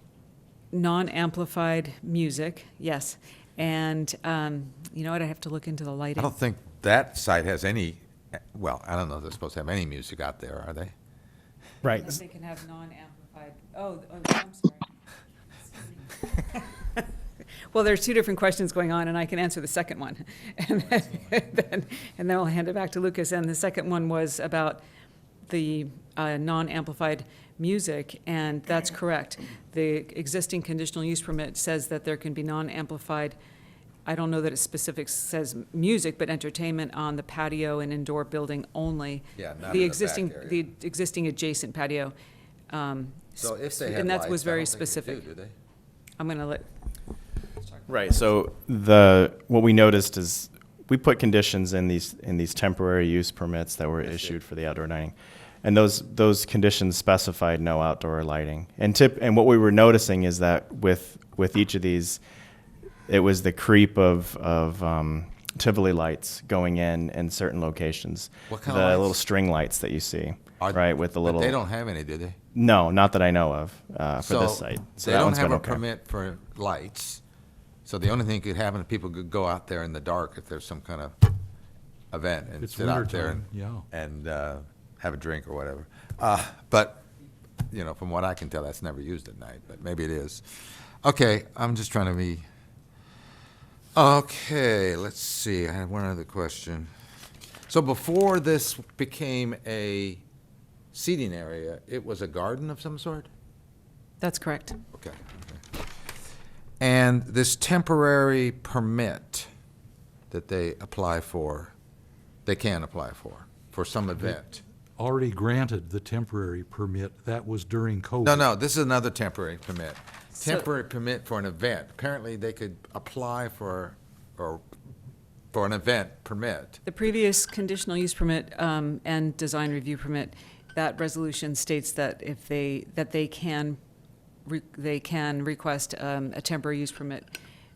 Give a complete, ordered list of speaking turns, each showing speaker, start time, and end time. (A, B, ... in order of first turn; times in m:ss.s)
0:00.7-0:06.3 A
0:06.2-0:10.9 B
0:11.8-0:12.2 C
0:11.9-0:14.9 A
0:15.8-0:17.0 A
0:17.7-0:24.8 A
0:25.5-0:33.4 A
0:34.0-0:42.1 A
0:39.4-0:40.6 B
0:42.7-0:45.3 A
0:43.4-0:45.5 B
0:46.2-0:46.7 A
0:47.9-1:02.2 C
0:48.0-0:48.2 A
1:03.1-1:11.6 C
1:08.5-1:09.2 B
1:10.6-1:12.4 B
1:12.5-1:15.8 C
1:14.2-1:17.2 B
1:17.8-1:21.3 B
1:22.1-1:27.1 B
1:22.6-1:23.9 D
1:27.7-1:32.4 B
1:34.0-1:36.9 B
1:37.7-1:40.2 B
1:40.9-1:43.3 B
1:44.2-1:44.8 A
1:44.9-1:45.2 B
1:46.8-1:49.5 B
1:50.3-1:51.7 B
1:52.5-1:54.6 B
1:55.0-1:58.5 D
1:58.2-2:04.6 B
2:00.4-2:00.6 A
2:05.5-2:06.8 B
2:06.8-2:13.8 A
2:14.5-2:17.3 A